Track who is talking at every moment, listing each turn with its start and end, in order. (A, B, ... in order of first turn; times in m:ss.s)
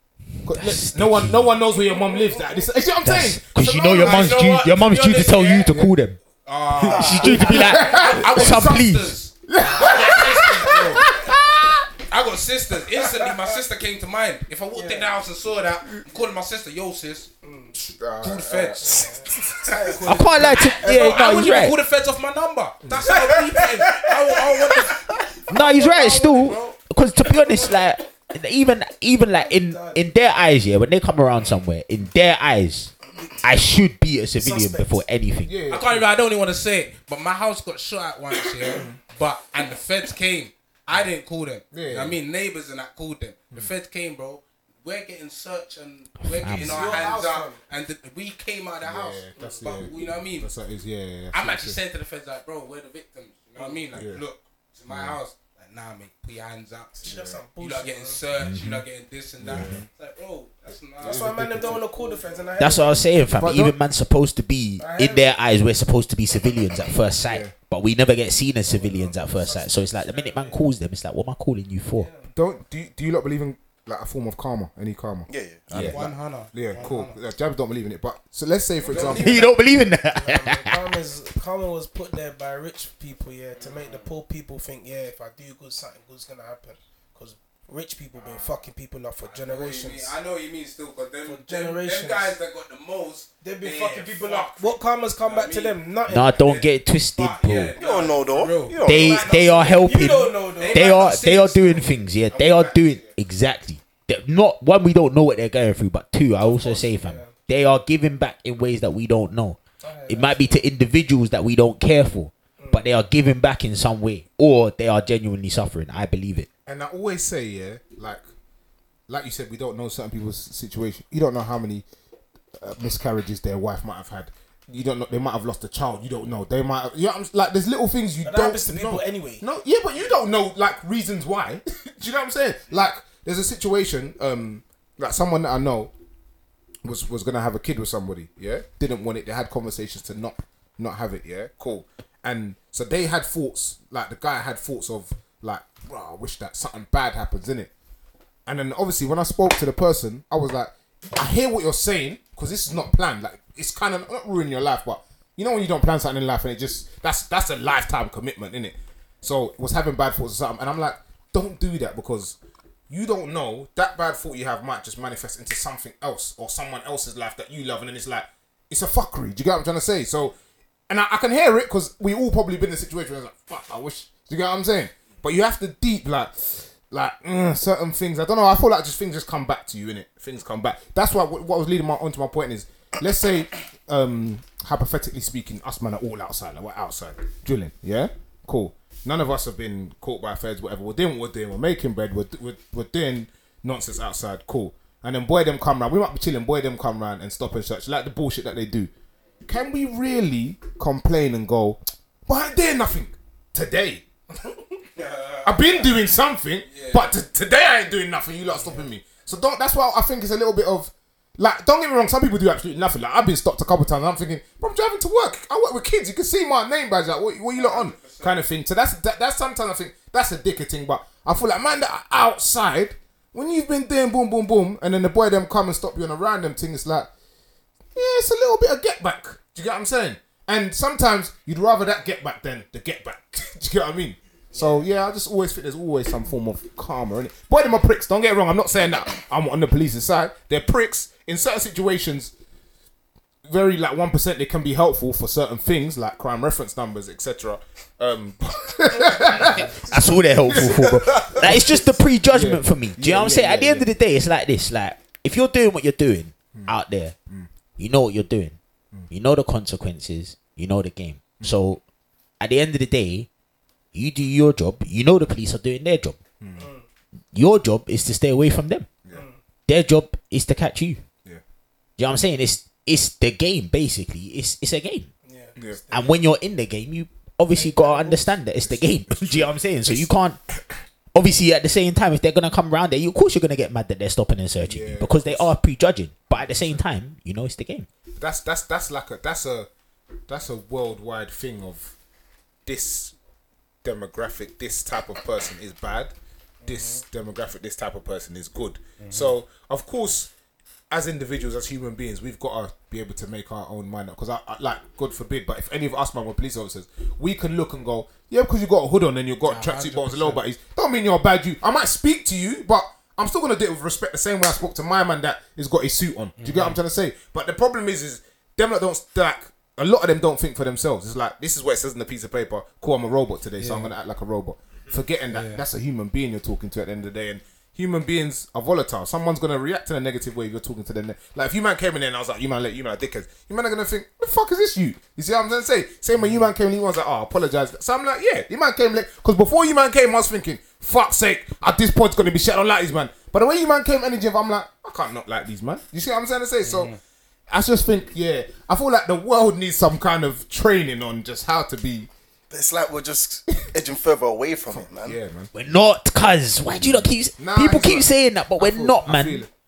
0:00.4-0:04.4 A
0:00.5-0:01.5 B
0:01.7-0:02.7 C
0:03.0-0:06.2 B
0:03.6-0:05.8 D
0:06.4-0:11.1 D
0:06.8-0:09.2 B
0:06.9-0:08.8 A
0:09.4-0:11.9 A
0:09.8-0:11.0 C
0:12.1-0:17.3 D
0:14.7-0:15.1 C
0:17.4-0:17.8 C
0:18.0-0:19.0 A
0:18.2-0:26.8 D
0:18.8-0:21.2 C
0:20.1-0:21.8 B
0:22.8-0:23.2 A
0:23.0-0:24.4 C
0:25.5-0:35.6 B
0:25.5-0:26.7 C
0:27.4-0:27.8 C
0:29.3-0:30.0 C
0:34.4-0:35.0 C
0:35.5-0:36.1 A
0:35.7-0:50.5 D
0:38.7-0:39.0 A
0:41.7-0:42.2 A
0:46.3-0:47.1 B
0:46.5-0:47.6 C
0:48.8-0:51.8 A
0:49.4-0:49.9 C
0:51.3-1:02.2 D
0:53.6-0:53.9 C
0:53.9-0:54.2 A
0:54.9-0:55.2 A
0:57.0-0:58.2 C
0:58.4-0:58.8 B
0:59.4-0:59.9 A
1:01.0-1:01.8 A
1:01.0-1:03.0 C
1:02.6-1:12.1 B
1:03.3-1:03.8 A
1:04.8-1:05.3 C
1:07.3-1:07.5 A
1:08.7-1:10.6 C
1:12.0-1:12.3 C
1:12.3-1:19.4 A
1:15.3-1:16.1 E
1:15.8-1:17.2 D
1:18.8-1:30.2 C
1:18.8-1:19.5 D
1:19.1-1:20.8 B
1:23.6-1:24.2 D
1:28.2-1:28.6 D
1:29.2-1:35.8 D
1:31.2-1:32.4 C
1:33.4-1:36.6 C
1:36.1-1:37.7 B
1:36.4-1:40.0 D
1:37.8-1:39.4 E
1:37.8-1:38.1 C
1:38.8-1:56.5 B
1:39.3-1:40.8 C
1:40.6-1:43.1 D
1:46.4-1:47.3 C
1:49.8-1:50.7 C
1:52.6-1:52.9 C
1:56.7-1:58.2 A
1:59.1-2:01.8 A
2:02.6-2:15.9 A
2:08.2-2:09.4 C
2:16.8-2:27.7 A
2:28.5-2:42.4 A
2:42.9-2:50.4 A
2:50.9-3:18.9 A
3:19.4-3:24.1 A
3:25.0-3:26.0 D
3:25.4-3:47.1 A
3:26.7-3:27.1 D
3:28.4-3:28.9 D
3:37.5-3:38.4 D
3:48.0-4:02.3 A
3:54.5-3:54.9 D
4:03.5-4:13.9 A
4:09.1-4:09.6 C
4:09.7-4:17.1 B
4:10.9-4:11.4 E
4:17.8-4:18.6 B
4:19.1-4:21.8 B
4:22.4-4:23.3 B
4:23.9-4:26.2 B
4:26.4-4:26.7 A
4:26.6-4:26.9 C
4:27.3-4:28.9 B
4:29.1-4:29.4 C
4:29.7-4:31.0 B
4:32.0-4:35.1 B
4:35.2-4:36.2 C
4:35.9-4:40.4 B
4:37.5-4:38.3 C
4:38.6-4:40.7 A
4:41.1-4:47.9 B
4:44.6-4:45.5 A
4:46.3-4:46.8 A
4:48.2-4:49.7 A
4:50.3-4:52.0 A
4:52.7-4:53.1 A
4:53.8-4:56.1 A
4:56.6-4:57.0 D
4:56.6-5:00.3 A
4:59.0-4:59.4 D
5:00.9-5:46.9 A
5:09.4-5:10.4 D
5:16.4-5:16.8 D
5:23.6-5:23.9 D
5:25.3-5:25.6 D
5:36.2-5:36.5 D
5:46.6-5:47.0 D
5:47.5-5:52.1 A
5:52.5-5:55.2 E
5:54.7-5:55.5 A
5:55.5-5:59.4 B
5:56.7-5:59.5 A